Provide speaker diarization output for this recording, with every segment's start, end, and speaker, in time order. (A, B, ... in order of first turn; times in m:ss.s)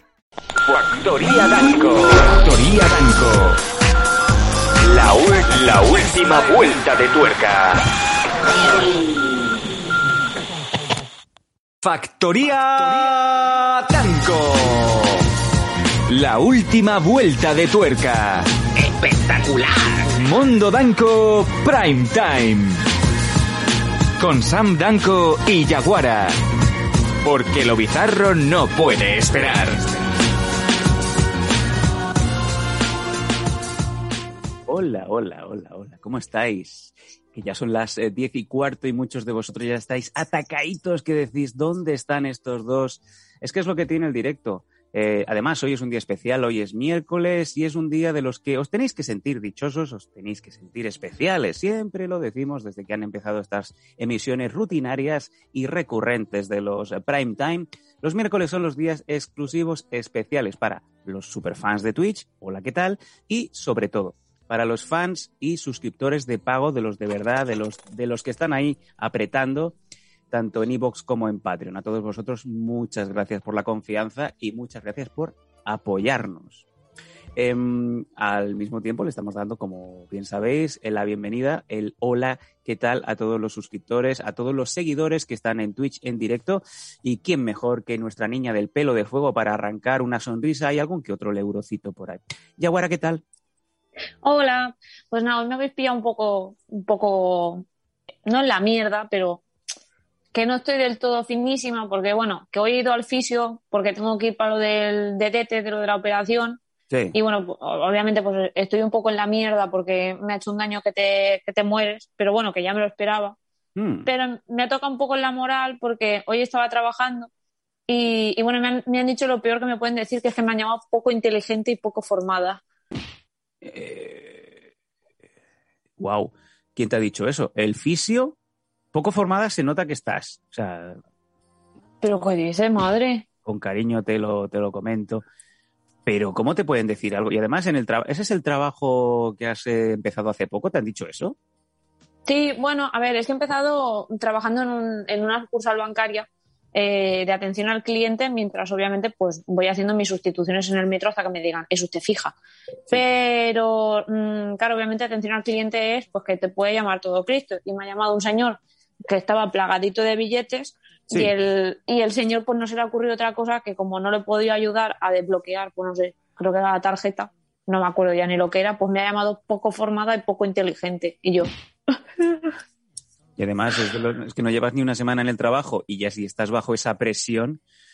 0:00.7-0:03.6 A
0:04.8-0:07.8 A
0:11.8-0:15.2 A
0:16.1-0:22.8 A
0:24.2-0:26.4 A
0:27.2-0:29.8 A
0:29.4-0:30.0 B
0:34.7-1:09.8 B
1:10.3-1:16.6 B
1:17.4-1:33.2 B
1:34.2-1:37.6 C
1:38.2-1:39.4 C
1:40.3-1:46.6 C
1:46.9-1:47.2 B
1:47.1-1:53.4 C
1:53.8-1:54.1 B
1:54.0-1:57.3 C
1:57.9-2:02.6 C
2:03.6-2:04.5 B
2:06.0-2:08.4 B
2:08.9-2:11.0 B
2:12.0-2:13.2 C
2:13.4-2:15.2 B
2:16.0-2:21.4 B
2:22.2-2:32.4 C
2:32.9-2:52.5 C
2:53.4-2:57.6 B